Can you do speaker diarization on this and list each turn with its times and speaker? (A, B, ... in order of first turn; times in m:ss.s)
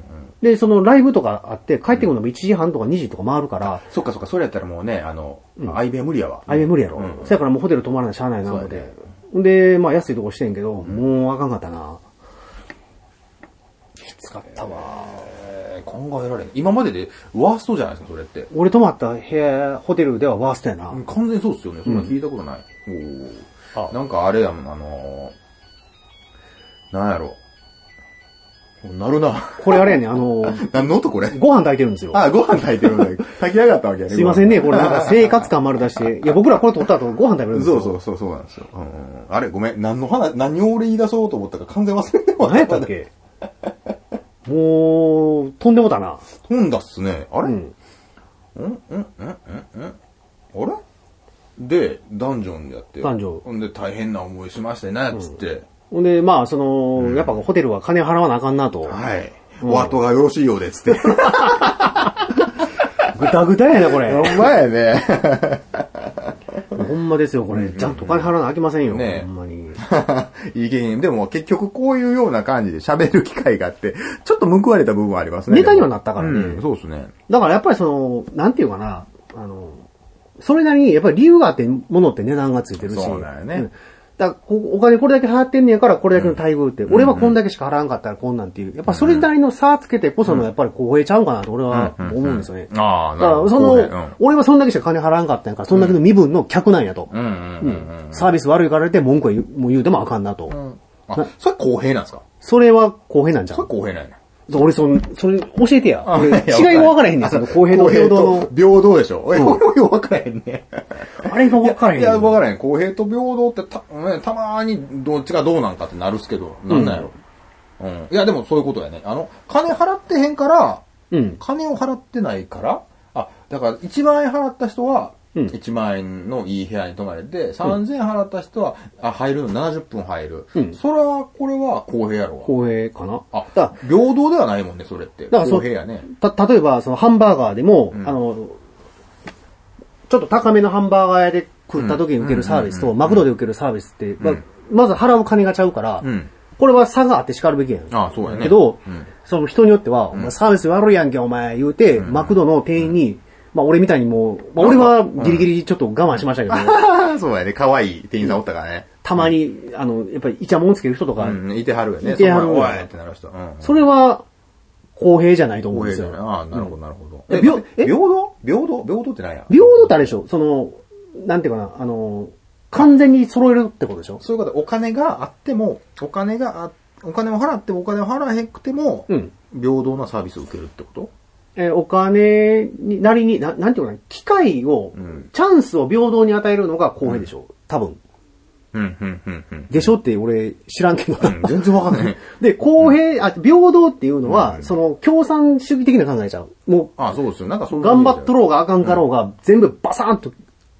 0:00.4-0:03.9 A
0:03.7-0:07.4 B
0:06.5-0:12.0 A
0:08.5-0:08.9 B
0:14.0-0:15.3 A
0:14.6-0:18.5 B
0:18.5-0:21.0 A
0:20.9-0:25.4 B
0:21.9-0:22.1 A
0:26.9-0:27.4 B
0:28.8-0:31.4 B
0:29.6-0:32.2 A
0:32.1-0:35.5 B
0:34.1-0:38.0 A
0:37.5-0:42.9 B
0:42.4-0:43.1 A
0:44.5-0:46.2 A
0:46.4-0:47.6 B
0:47.4-0:47.7 A
0:48.6-0:50.0 B
0:50.5-0:50.8 B
0:51.6-0:55.7 B
0:53.0-0:53.4 A
0:55.9-0:59.0 A
0:57.0-0:57.3 B
0:58.9-1:03.1 B
0:59.6-1:00.0 A
1:01.0-1:02.3 A
1:03.1-1:04.4 A
1:03.7-1:06.8 B
1:06.7-1:09.8 A
1:07.5-1:17.1 B
1:15.5-1:16.6 A
1:17.3-1:19.8 A
1:20.4-1:40.6 A
1:22.8-1:23.7 B
1:26.2-1:27.4 B
1:28.9-1:29.3 B
1:31.7-1:34.2 B
1:35.7-1:36.0 B
1:37.1-1:38.3 B
1:40.5-1:42.2 B
1:42.4-1:43.7 A
1:43.5-1:44.2 B
1:44.5-1:48.5 A
1:46.0-1:57.1 B
1:49.3-1:49.6 A
1:51.2-1:52.4 A
1:56.7-1:57.1 A
1:57.8-2:00.8 B
2:01.1-2:01.4 A
2:01.4-2:12.5 B
2:12.4-2:13.8 A
2:13.3-2:16.1 B
2:15.3-2:18.6 A
2:20.1-2:36.8 A
2:21.8-2:23.3 B
2:26.0-2:26.3 B
2:27.9-2:29.1 B
2:32.0-2:32.9 B
2:34.6-2:35.5 B
2:36.5-2:39.3 B
2:39.0-2:41.4 A
2:41.2-2:43.8 B
2:42.0-2:42.9 A
2:43.6-2:44.3 A
2:45.0-2:46.7 A
2:45.7-2:50.1 B
2:47.3-2:47.9 A
2:49.5-2:54.2 A
2:54.2-3:01.1 B
3:01.6-3:08.0 A
3:08.7-3:09.8 B
3:09.7-3:17.0 A
3:11.2-3:12.2 B
3:14.3-3:14.7 B
3:17.0-3:18.3 B
3:17.7-3:20.4 A